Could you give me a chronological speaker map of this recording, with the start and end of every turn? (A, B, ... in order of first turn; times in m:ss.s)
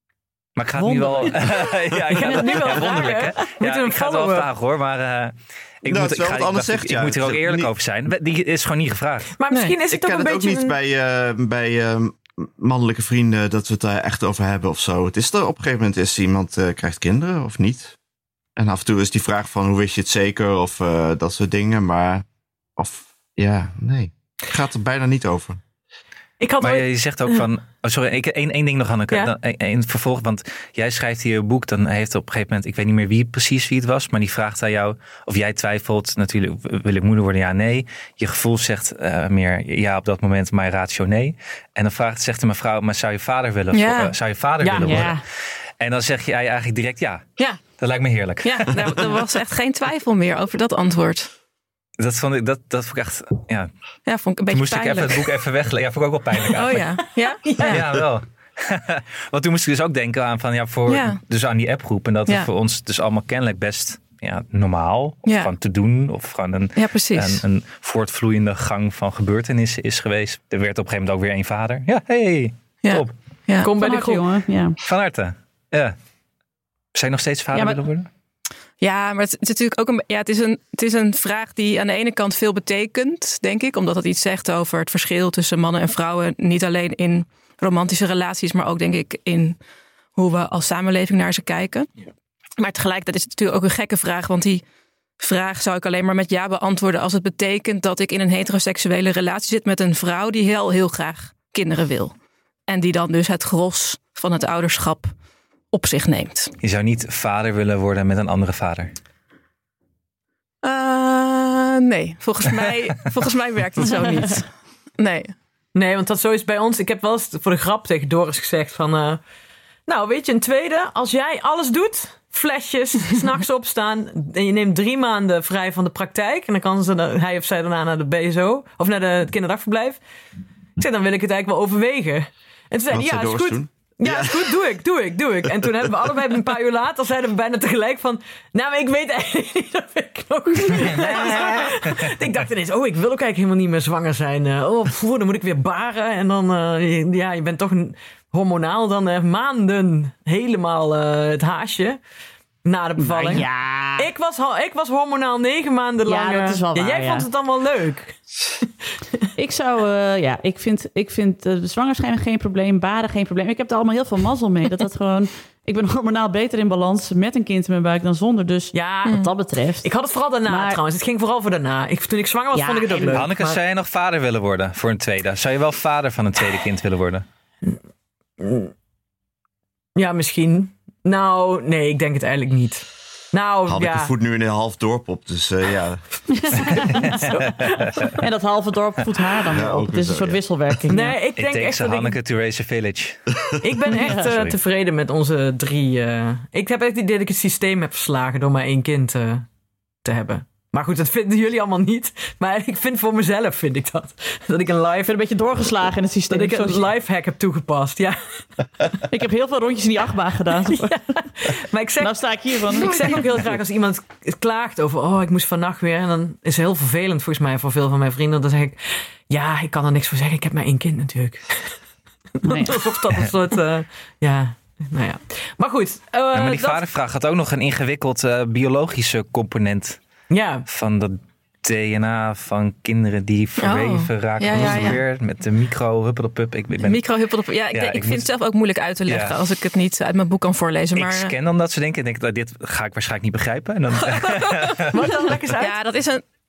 0:00.6-0:09.3 A
0:00.8-0:01.4 B
0:02.1-0:04.5 C
0:05.9-0:07.7 D
0:09.4-0:10.8 C
0:09.5-0:09.8 E
0:09.9-0:18.0 D
0:18.6-0:22.2 D
0:22.8-0:25.6 D
0:26.4-0:27.4 C
0:26.6-0:45.2 A
0:43.7-0:44.1 E
0:44.6-0:45.1 C
0:44.8-0:45.2 B
0:45.8-0:49.2 A
0:48.4-0:51.3 E
0:52.0-0:53.7 A
0:54.1-0:55.3 E
0:54.5-0:57.0 A
0:56.4-0:58.0 E
0:57.4-0:57.8 C
0:57.6-1:13.1 A
1:00.9-1:01.2 E
1:05.3-1:05.5 E
1:06.8-1:07.4 E
1:12.8-1:13.7 E
1:13.6-1:14.2 C
1:13.7-1:14.8 B
1:14.8-1:16.0 A
1:16.9-1:18.1 A
1:17.6-1:17.8 E
1:18.8-1:29.6 E
1:30.2-1:31.9 E
1:32.6-1:34.6 E
1:35.2-1:42.1 E
1:42.7-1:45.1 E
1:45.7-1:46.5 E
1:46.6-1:48.9 A
1:50.6-1:55.3 E
1:55.7-1:59.2 C
1:59.9-2:10.0 C
2:10.8-2:32.0 C
2:12.9-2:14.5 D
2:20.7-2:22.1 A
2:32.6-2:38.7 C
2:33.0-2:34.1 B
2:36.1-2:37.3 B
2:39.4-2:49.9 B
2:48.7-2:49.3 C
2:49.8-2:53.6 C
2:50.5-2:50.8 B
2:52.5-2:53.2 B
2:53.1-2:57.2 A
2:58.4-2:58.7 C
3:00.0-3:04.1 C
3:03.7-3:06.0 D
3:06.4-3:07.2 B
3:06.7-3:08.2 A
3:08.2-3:11.2 B
3:09.5-3:10.4 D
3:10.9-3:12.2 C
3:11.4-3:13.2 A
3:13.6-3:19.5 C
3:13.8-3:14.6 A
3:13.9-3:14.3 B
3:20.0-3:25.2 C
3:25.0-3:26.8 B
3:26.3-3:28.5 C
3:29.1-3:31.0 B
3:30.7-3:41.8 C
3:32.0-3:33.4 B
3:42.4-3:46.8 C
3:42.4-3:42.8 B
3:46.3-3:50.0 A
3:50.3-3:50.7 C
3:50.7-3:57.0 A
3:53.6-3:55.0 E
3:56.8-4:01.3 E
3:57.7-3:58.3 A
3:59.1-3:59.4 A
4:01.0-4:05.1 A
4:04.1-4:04.8 E
4:04.9-4:05.8 C
4:05.6-4:06.2 E